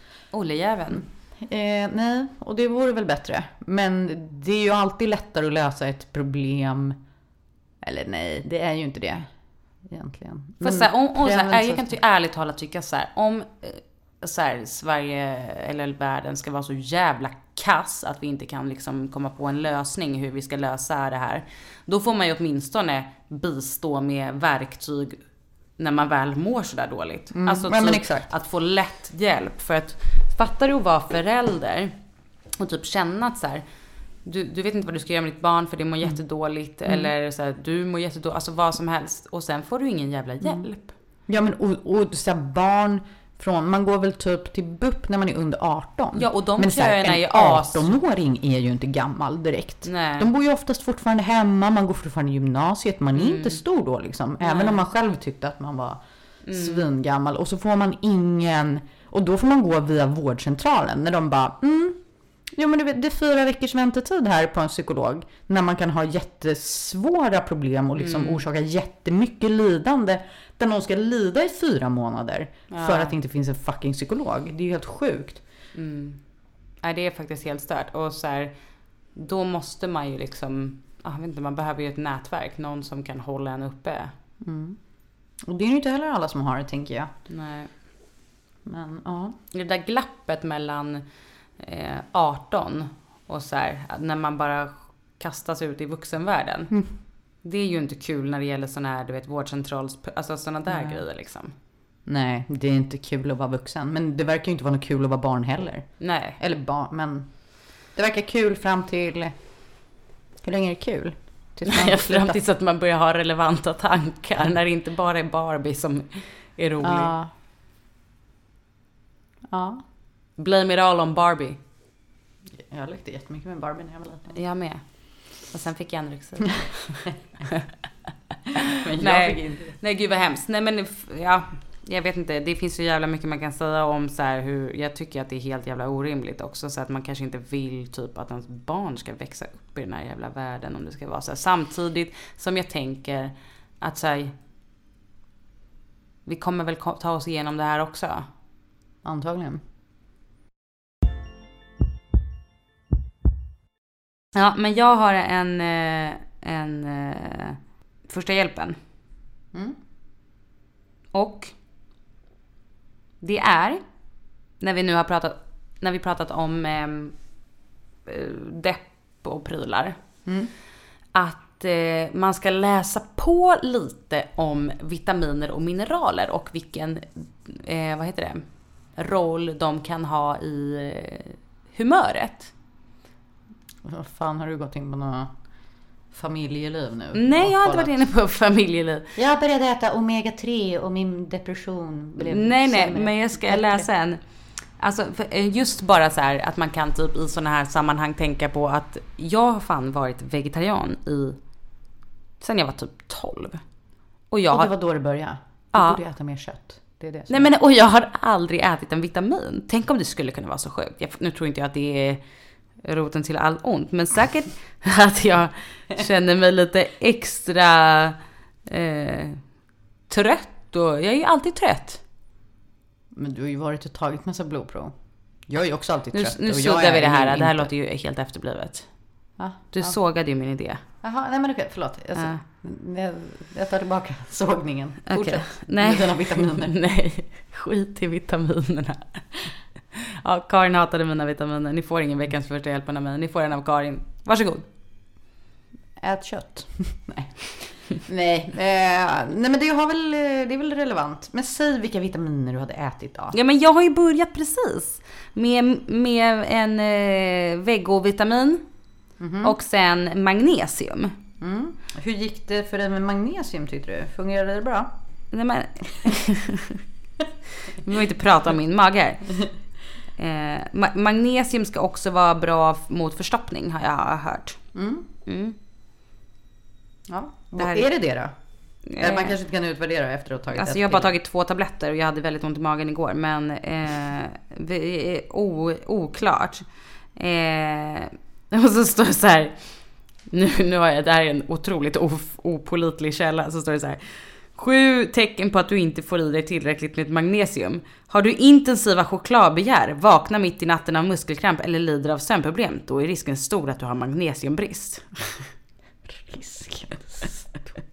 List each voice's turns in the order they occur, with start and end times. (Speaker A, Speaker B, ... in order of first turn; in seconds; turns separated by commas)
Speaker A: 0.3-1.1, Speaker B: 1.0-7.0, Speaker B: 7.8-9.3, Speaker B: 9.8-12.0, Speaker A: 10.6-25.2, Speaker A: 25.8-31.9, Speaker B: 27.3-28.3, Speaker A: 32.6-33.6, Speaker A: 34.2-40.9, Speaker B: 36.9-37.1, Speaker B: 40.4-40.7, Speaker B: 41.3-75.4, Speaker A: 46.1-48.0, Speaker A: 49.8-50.3, Speaker A: 53.2-53.6, Speaker A: 54.4-54.8, Speaker A: 56.5-56.9, Speaker A: 68.0-68.4, Speaker A: 72.7-73.1, Speaker A: 75.8-76.2, Speaker A: 76.8-78.5, Speaker A: 79.1-84.1, Speaker B: 84.4-84.8, Speaker B: 85.5-87.1, Speaker A: 87.3-87.7, Speaker B: 88.7-89.4, Speaker A: 89.5-91.0, Speaker A: 91.6-96.8, Speaker A: 97.4-101.5, Speaker B: 100.7-101.0, Speaker B: 102.1-107.4, Speaker A: 106.0-106.4, Speaker B: 107.9-109.4, Speaker B: 110.4-112.4, Speaker A: 111.7-117.1, Speaker B: 116.8-117.3, Speaker B: 119.5-119.8, Speaker A: 120.4-121.6, Speaker B: 122.5-124.4, Speaker A: 124.3-127.1, Speaker B: 128.8-129.8, Speaker A: 129.0-144.3, Speaker A: 146.3-148.3, Speaker B: 149.0-149.6, Speaker A: 154.3-158.8, Speaker A: 161.1-161.5, Speaker A: 163.2-163.8, Speaker A: 164.6-167.2, Speaker A: 168.1-169.9, Speaker B: 170.3-170.5, Speaker A: 171.1-182.5, Speaker B: 183.8-185.3, Speaker B: 186.1-187.9, Speaker A: 187.1-189.1, Speaker B: 189.2-193.9, Speaker A: 192.2-194.2, Speaker A: 194.8-201.4, Speaker A: 202.4-203.6, Speaker A: 204.3-204.7, Speaker B: 204.5-207.5, Speaker A: 205.7-206.0, Speaker A: 207.3-212.2, Speaker A: 212.8-219.4, Speaker A: 220.1-222.0, Speaker B: 223.1-224.9, Speaker B: 225.5-227.7, Speaker A: 226.1-228.9, Speaker B: 229.4-229.9, Speaker A: 229.7-230.8, Speaker B: 231.0-236.7, Speaker A: 232.2-232.4, Speaker A: 235.1-239.3, Speaker A: 240.1-244.6, Speaker B: 246.0-253.4, Speaker A: 253.3-258.6, Speaker B: 259.2-259.6, Speaker A: 259.4-261.1, Speaker B: 261.4-264.9, Speaker A: 265.3-266.8, Speaker A: 267.6-269.4, Speaker A: 270.2-274.6, Speaker B: 274.7-275.1, Speaker A: 275.3-275.6, Speaker B: 277.1-278.3, Speaker A: 277.6-277.9, Speaker A: 278.9-279.4, Speaker B: 278.9-281.1, Speaker A: 280.5-286.6, Speaker A: 287.2-305.4, Speaker B: 306.3-307.7